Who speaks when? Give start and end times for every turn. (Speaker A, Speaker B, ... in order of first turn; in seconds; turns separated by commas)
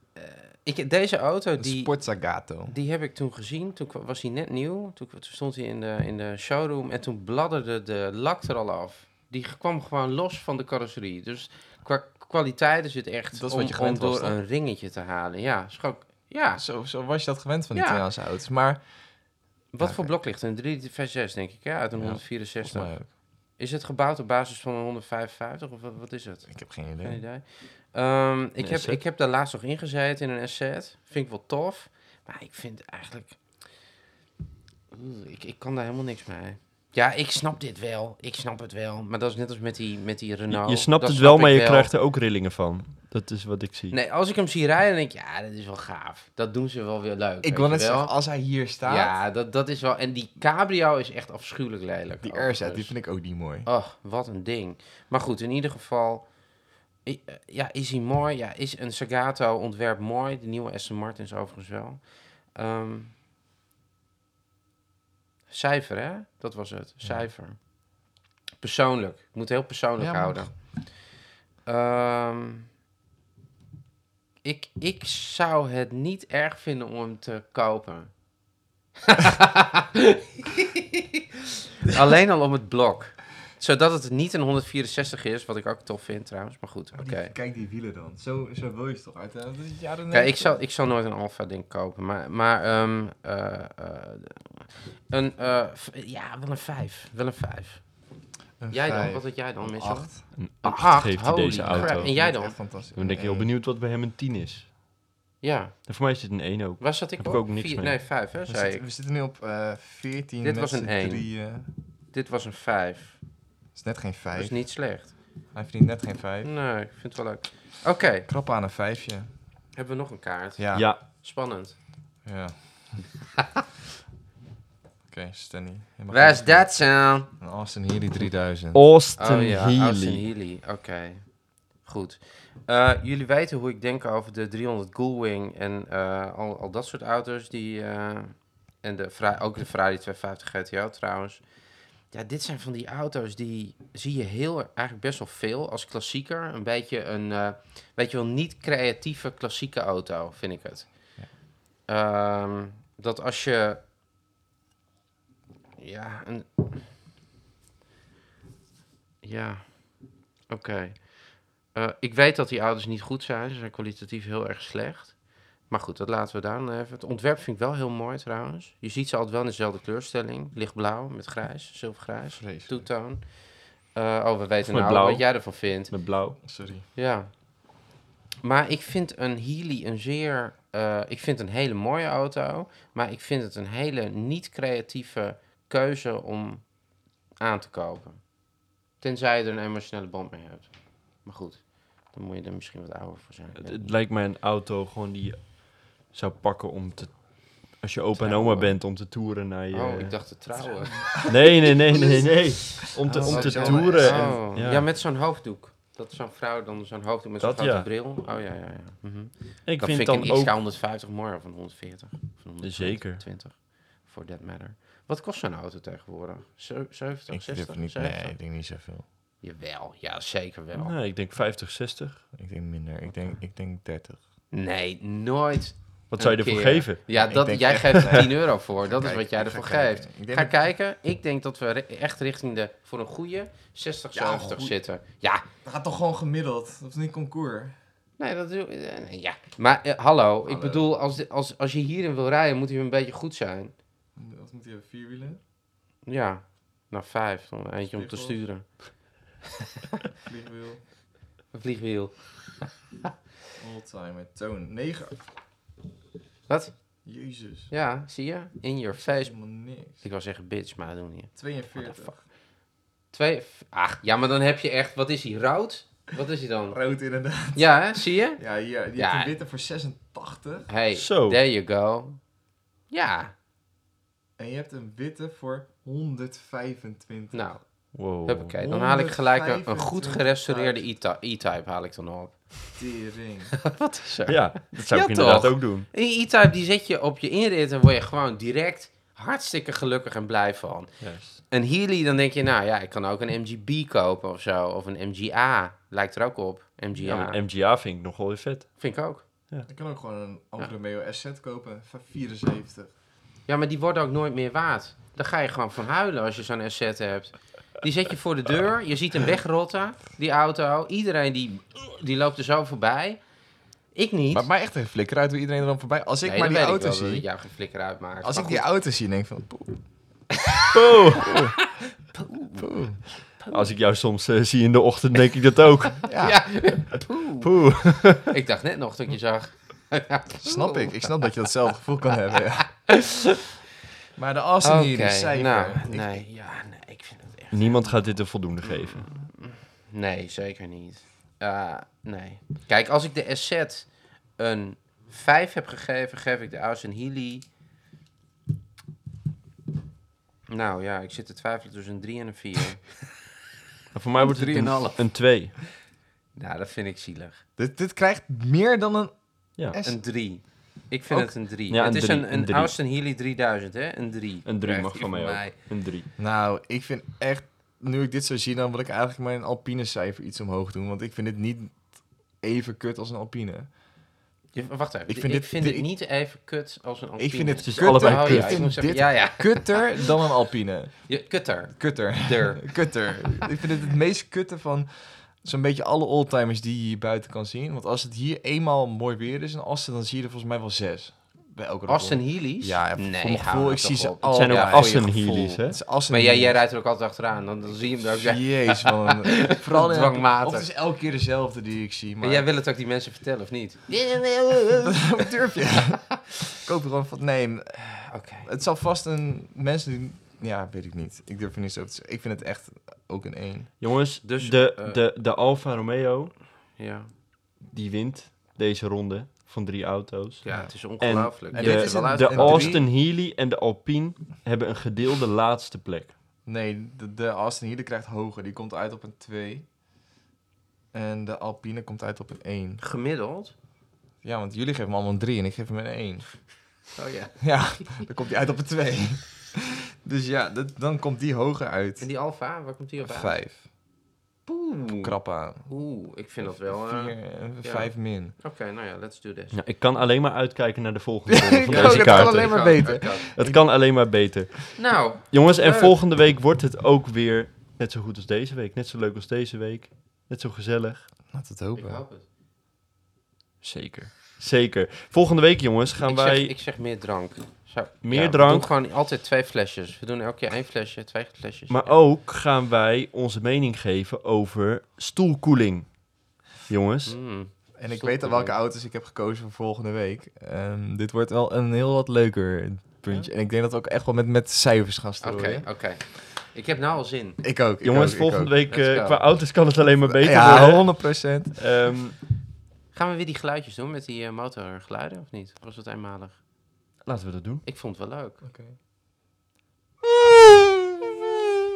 Speaker A: 0.2-16.6, Speaker B: 1.6-2.8, Speaker B: 13.3-14.4, Speaker B: 16.6-20.1, Speaker A: 17.7-18.0, Speaker A: 19.7-33.6, Speaker B: 22.0-23.1, Speaker B: 26.5-27.2, Speaker C: 28.6-29.0, Speaker A: 34.9-41.9, Speaker C: 40.5-44.0, Speaker A: 43.9-48.2, Speaker B: 47.4-49.2, Speaker A: 48.9-53.0, Speaker B: 52.2-53.7, Speaker A: 53.7-56.4, Speaker A: 57.0-63.1, Speaker A: 65.5-67.8, Speaker A: 68.6-71.0, Speaker B: 70.0-70.6, Speaker A: 71.7-72.7, Speaker A: 74.4-78.2, Speaker A: 79.1-80.8, Speaker A: 81.9-87.3, Speaker B: 86.9-90.6, Speaker A: 90.1-98.1, Speaker B: 98.6-100.3, Speaker A: 98.7-102.6, Speaker C: 100.3-102.3, Speaker B: 101.6-103.5, Speaker C: 103.0-104.7, Speaker A: 105.4-105.9, Speaker C: 105.9-108.0, Speaker A: 106.8-108.8, Speaker B: 108.5-111.7, Speaker A: 110.4-111.3, Speaker A: 112.1-113.2, Speaker B: 113.8-114.8, Speaker A: 114.3-115.2, Speaker B: 115.5-116.5, Speaker A: 116.4-118.3, Speaker B: 118.3-119.4, Speaker A: 119.8-121.8, Speaker B: 120.6-120.9, Speaker C: 120.7-121.0, Speaker B: 122.2-123.1, Speaker B: 125.1-128.8, Speaker A: 126.1-127.4, Speaker C: 128.7-130.3, Speaker A: 129.2-151.2, Speaker A: 151.8-153.8, Speaker A: 155.8-156.6, Speaker A: 159.2-177.5, Speaker B: 172.4-172.9, Speaker C: 174.7-176.4, Speaker B: 176.4-176.9, Speaker A: 178.4-186.8, Speaker A: 187.3-188.4, Speaker A: 189.0-194.0, Speaker C: 193.6-200.5, Speaker A: 198.2-198.8, Speaker A: 199.7-201.2, Speaker B: 200.6-201.5, Speaker C: 201.2-204.9, Speaker A: 203.1-218.4, Speaker B: 203.2-204.5, Speaker C: 207.4-207.9, Speaker C: 209.7-210.6, Speaker C: 212.6-213.2, Speaker B: 217.3-219.1, Speaker A: 219.4-220.9, Speaker C: 220.7-222.2, Speaker B: 222.3-224.2, Speaker A: 224.5-235.4, Speaker C: 226.1-227.0, Speaker B: 227.1-230.6, Speaker B: 234.1-234.8, Speaker B: 235.7-237.8, Speaker A: 238.2-243.7, Speaker B: 240.4-240.9, Speaker B: 244.2-245.4, Speaker A: 246.1-249.2, Speaker B: 247.9-248.4, Speaker B: 250.2-250.8, Speaker A: 251.5-252.7, Speaker B: 253.6-255.2, Speaker A: 256.5-257.0, Speaker B: 257.1-257.7, Speaker A: 257.7-262.3, Speaker B: 259.0-260.0, Speaker B: 261.4-262.2, Speaker A: 263.1-266.8, Speaker B: 266.7-270.7, Speaker A: 267.5-268.4, Speaker A: 268.9-269.3, Speaker A: 270.7-272.2, Speaker C: 270.9-271.4, Speaker A: 272.9-273.3, Speaker B: 274.4-277.5, Speaker A: 277.3-282.8, Speaker C: 277.9-278.6, Speaker B: 278.6-280.9, Speaker B: 282.8-283.6, Speaker A: 283.6-297.4, Speaker C: 284.3-285.9, Speaker C: 291.0-291.4, Speaker C: 297.0-298.8, Speaker A: 298.8-299.2, Speaker B: 299.7-302.9, Speaker A: 303.5-313.2, Speaker A: 313.9-314.5, Speaker B: 314.3-317.3, Speaker A: 316.2-318.6, Speaker B: 318.2-319.9, Speaker C: 320.7-321.3, Speaker B: 321.2-321.7, Speaker A: 322.1-322.7, Speaker B: 322.6-323.0, Speaker A: 323.4-323.7, Speaker C: 323.5-326.1, Speaker B: 326.1-326.9, Speaker A: 326.2-331.2, Speaker B: 327.4-328.0, Speaker B: 330.4-333.1, Speaker B: 334.2-336.3, Speaker A: 334.6-338.0, Speaker C: 337.5-339.1, Speaker A: 338.6-347.5, Speaker A: 350.5-353.1, Speaker C: 353.9-355.7, Speaker A: 354.2-355.4, Speaker A: 356.4-357.4, Speaker B: 357.6-360.0, Speaker A: 359.8-365.5, Speaker C: 361.1-362.8, Speaker C: 364.4-366.1, Speaker B: 366.2-373.7, Speaker A: 374.5-380.1, Speaker B: 375.1-375.9, Speaker B: 377.2-396.6, Speaker C: 377.6-379.0, Speaker A: 381.1-383.2, Speaker A: 391.9-400.7, Speaker C: 394.3-395.8, Speaker B: 397.7-402.5, Speaker A: 402.2-405.2, Speaker B: 404.7-413.7, Speaker A: 408.0-408.5, Speaker C: 413.8-416.4, Speaker A: 414.2-415.0, Speaker A: 416.8-417.1, Speaker C: 417.6-426.1, Speaker A: 420.4-422.8, Speaker B: 420.5-420.7, Speaker B: 421.5-422.9, Speaker B: 426.4-429.7, Speaker B: 430.9-432.8, Speaker A: 432.8-433.6, Speaker B: 434.2-436.3, Speaker A: 436.9-438.0, Speaker B: 437.4-442.1, Speaker A: 442.0-443.4, Speaker B: 443.0-443.6, Speaker A: 444.5-449.6, Speaker B: 445.0-445.7, Speaker B: 446.4-448.4, Speaker C: 449.5-461.1, Speaker B: 451.3-453.6, Speaker A: 451.6-453.3, Speaker A: 454.8-456.0, Speaker B: 461.3-462.0, Speaker A: 461.8-462.2, Speaker C: 463.6-466.5, Speaker A: 466.0-472.0, Speaker C: 468.0-468.7, Speaker C: 471.7-477.2, Speaker A: 477.1-478.6, Speaker B: 477.8-485.7, Speaker A: 485.2-487.4, Speaker B: 487.4-488.6, Speaker C: 487.8-492.2, Speaker A: 488.7-489.2, Speaker B: 490.1-491.6, Speaker A: 492.9-496.4, Speaker C: 497.1-497.6, Speaker A: 497.6-498.4, Speaker B: 498.4-498.8